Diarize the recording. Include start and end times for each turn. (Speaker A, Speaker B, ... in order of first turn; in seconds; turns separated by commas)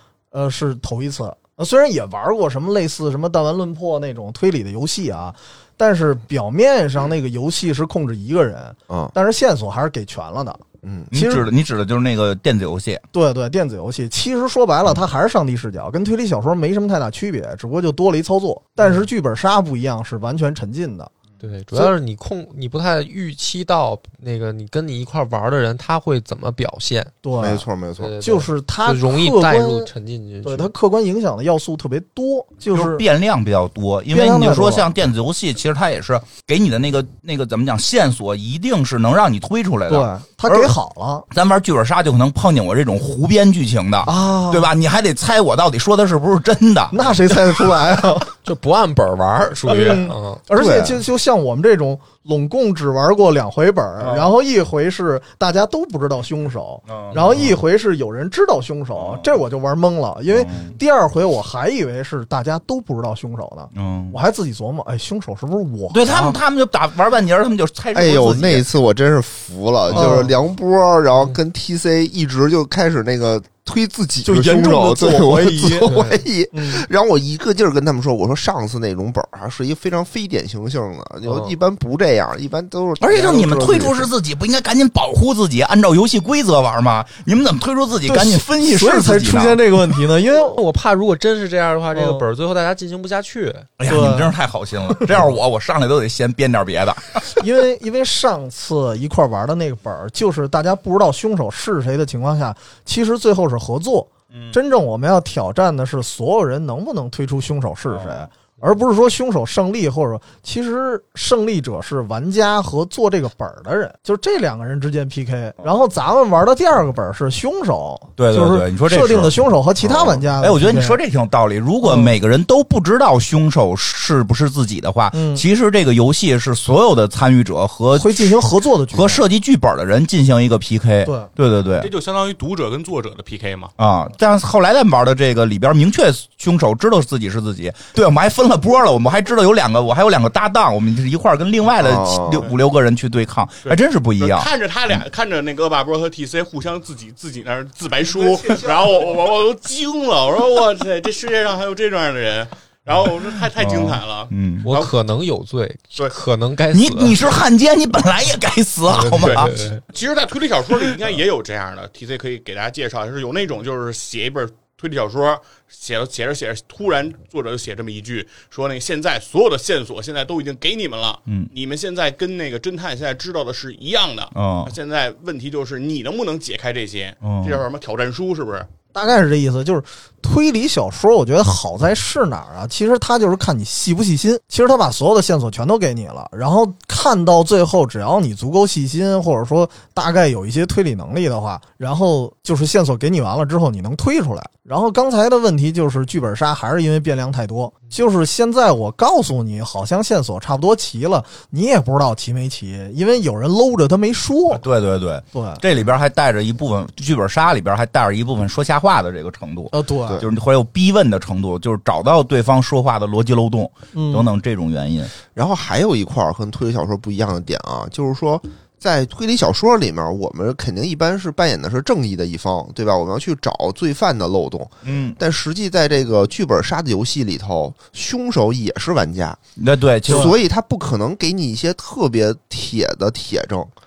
Speaker A: 0.3-11.4, Speaker B: 8.9-9.1, Speaker B: 10.8-11.1, Speaker C: 11.1-13.0, Speaker A: 13.1-21.1, Speaker D: 21.4-27.1, Speaker A: 27.2-27.6, Speaker B: 27.4-28.1, Speaker D: 28.0-30.7, Speaker A: 28.2-29.9, Speaker A: 30.4-33.0, Speaker C: 32.7-40.8, Speaker A: 34.1-34.9, Speaker A: 39.9-41.3, Speaker C: 41.3-47.2, Speaker A: 44.0-44.7, Speaker A: 46.9-48.3, Speaker D: 48.4-50.4, Speaker A: 49.6-66.4, Speaker B: 50.5-51.0, Speaker C: 54.0-54.3, Speaker C: 56.9-57.5, Speaker D: 57.1-57.5, Speaker C: 59.0-59.4, Speaker C: 60.3-60.8, Speaker C: 63.7-64.2, Speaker C: 65.9-68.7, Speaker B: 67.9-84.1, Speaker A: 69.9-70.3, Speaker A: 74.2-76.0, Speaker D: 75.9-76.2, Speaker A: 76.5-76.8, Speaker D: 81.2-81.5, Speaker C: 83.0-89.6, Speaker A: 88.0-90.6, Speaker D: 90.3-93.7, Speaker A: 91.9-92.2, Speaker C: 93.8-97.2, Speaker A: 93.9-94.3, Speaker A: 97.4-121.0, Speaker C: 107.9-108.2, Speaker C: 118.2-119.3, Speaker C: 120.4-131.9, Speaker A: 121.8-122.1, Speaker A: 125.1-125.4, Speaker A: 127.9-129.2, Speaker E: 131.8-133.7, Speaker C: 133.8-144.5, Speaker B: 141.8-142.5, Speaker E: 143.6-154.9, Speaker C: 153.6-154.7, Speaker D: 154.6-157.2, Speaker C: 156.7-159.6, Speaker D: 158.9-159.8, Speaker E: 159.2-178.7, Speaker C: 174.3-174.7, Speaker C: 177.2-177.6, Speaker A: 178.9-204.6, Speaker C: 204.5-215.1, Speaker A: 205.3-205.6, Speaker A: 209.7-210.2, Speaker A: 213.9-214.3, Speaker B: 215.3-229.4, Speaker C: 224.8-225.2, Speaker C: 229.6-230.3, Speaker A: 230.1-230.3, Speaker B: 230.1-233.7